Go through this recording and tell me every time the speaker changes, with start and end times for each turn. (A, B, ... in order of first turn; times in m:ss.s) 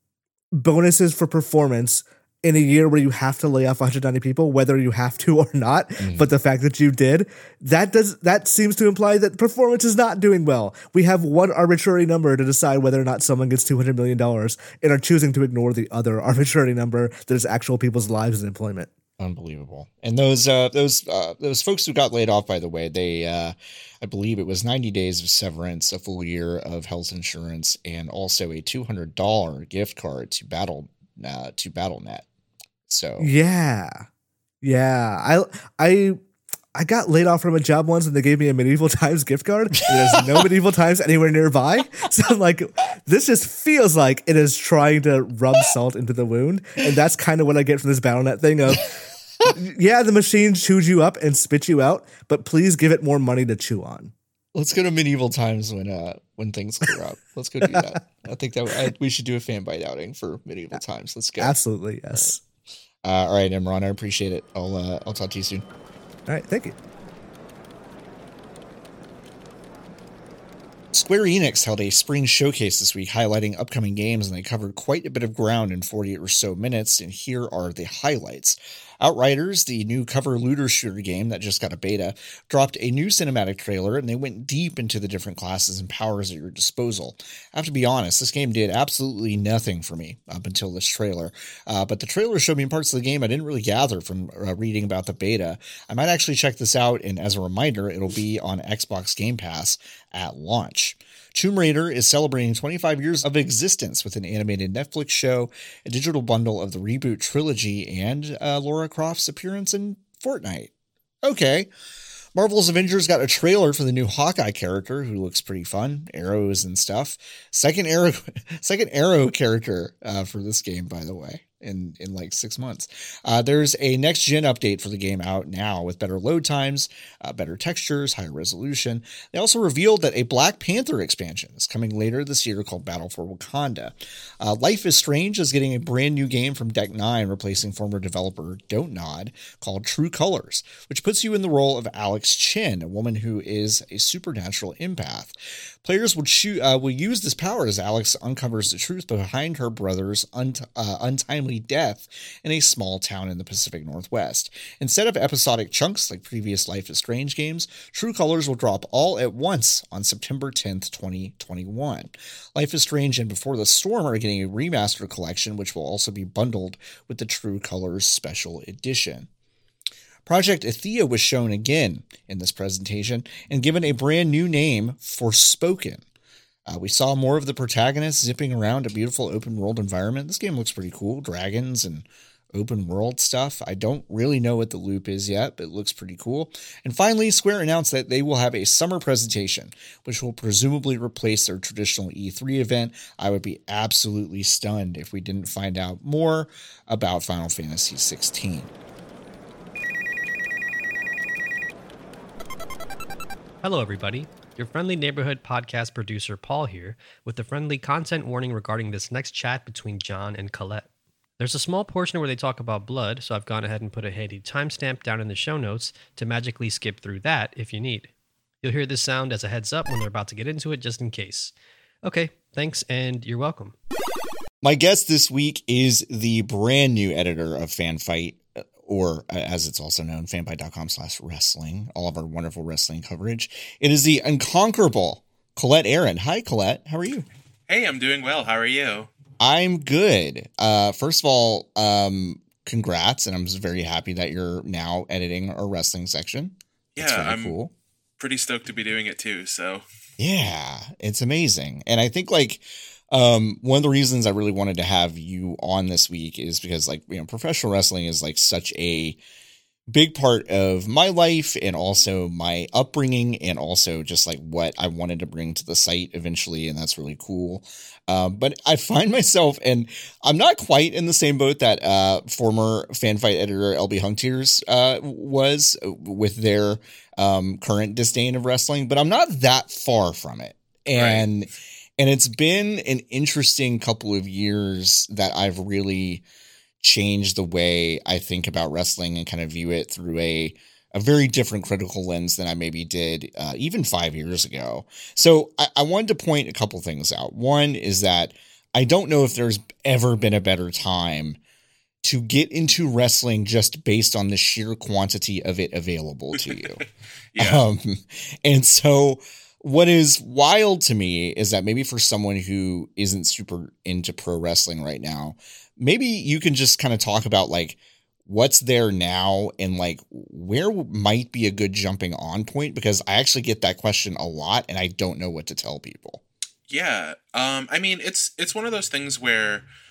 0:00.5-0:18.9 A
0:06.0-0:06.3 B
0:19.2-0:32.2 B
0:32.9-0:33.3 B
0:33.2-0:34.0 A
0:34.6-0:36.2 A
0:36.7-0:48.9 A
0:49.5-0:54.1 A
0:54.5-1:01.6 B
1:01.4-1:02.4 A
1:03.0-1:05.6 B
1:06.3-1:06.8 A
1:10.9-1:50.7 B
1:51.2-1:51.7 B
1:52.3-2:49.3 B
2:50.2-2:56.0 B
2:56.7-3:18.7 B
3:23.6-3:30.9 C
3:31.4-3:38.1 C
3:38.6-3:41.5 C
3:42.0-3:43.7 C
3:44.6-3:57.3 B
3:57.7-3:59.1 D
3:59.4-4:07.7 B
4:07.0-4:07.6 D
4:08.2-4:09.8 D
4:10.2-4:19.2 B
4:19.9-4:46.2 B
4:40.9-4:41.3 D
4:46.8-5:01.4 B
5:02.0-5:06.8 B
5:06.5-5:06.8 D
5:07.3-5:07.6 D
5:07.4-5:26.2 B
5:26.7-5:29.6 D